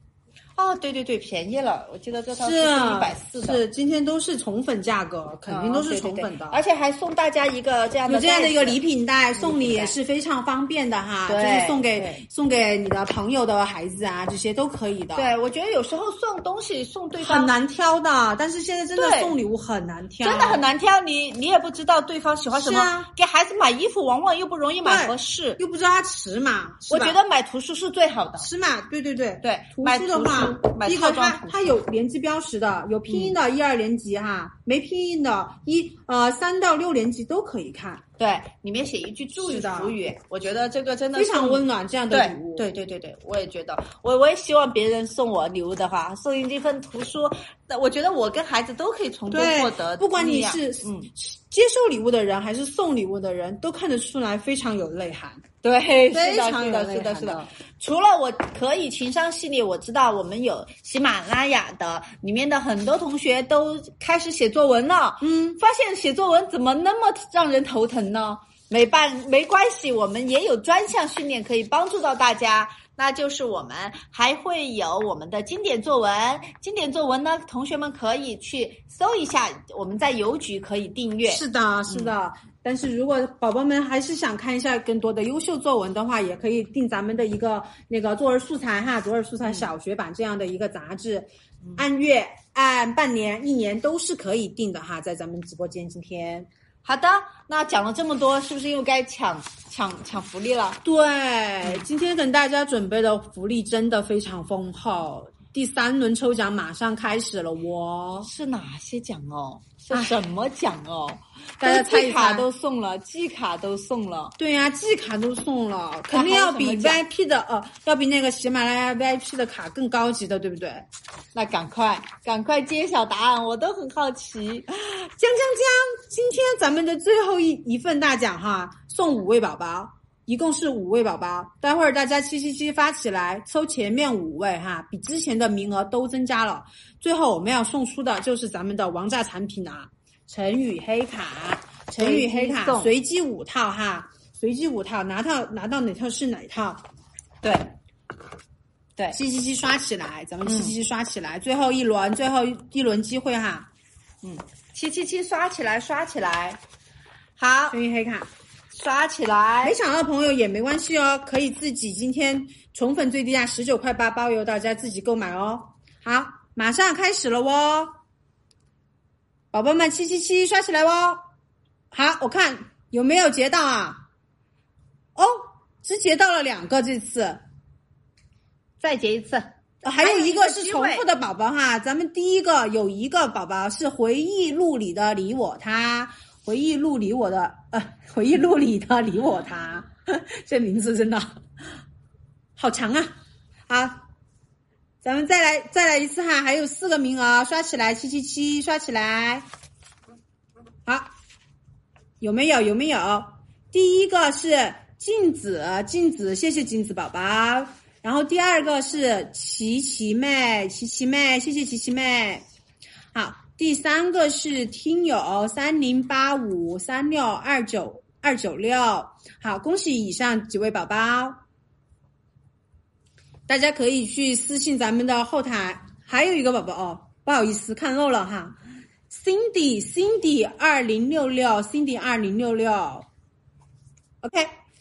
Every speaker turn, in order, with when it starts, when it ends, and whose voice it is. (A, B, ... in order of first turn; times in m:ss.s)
0:00.6-0:03.6 A
0:02.4-0:06.6 B
0:05.5-0:08.8 A
0:08.1-0:15.3 B
0:09.4-0:10.0 A
0:11.3-0:12.2 A
0:15.2-0:17.5 A
0:17.2-0:20.6 B
0:19.0-0:19.4 A
0:20.2-0:25.6 A
0:22.5-0:23.1 B
0:24.8-0:27.2 B
0:26.9-0:28.5 A
0:28.4-0:38.0 B
0:29.4-0:31.8 A
0:33.1-0:33.4 A
0:38.2-0:51.1 A
0:39.3-0:40.0 B
0:41.2-0:42.7 B
0:49.3-0:55.4 B
0:55.6-1:22.2 A
0:56.1-0:57.5 B
1:05.2-1:05.6 B
1:21.3-1:36.5 B
1:36.8-1:40.8 A
1:40.8-1:48.3 B
1:48.2-1:54.4 A
1:51.6-1:52.5 B
1:54.4-2:00.8 B
1:56.1-1:57.0 A
2:01.3-2:04.7 A
2:04.8-2:26.8 B
2:22.0-2:22.9 A
2:27.4-2:27.7 A
2:29.1-2:33.7 B
2:30.4-2:30.7 A
2:34.2-2:36.6 A
2:37.4-2:37.8 A
2:37.7-2:38.3 B
2:38.7-2:39.8 A
2:39.6-2:47.9 B
2:49.5-2:51.2 B
2:51.9-2:54.0 B
2:55.2-2:57.4 B
2:58.8-3:01.0 A
2:59.8-3:11.4 B
3:12.6-3:13.2 B
3:13.7-3:14.0 B
3:15.0-3:19.5 B
3:20.9-3:21.1 B
3:22.2-3:32.4 B
3:33.1-3:41.4 B
3:43.5-3:48.6 B
3:49.1-3:53.1 B
3:54.2-3:54.5 B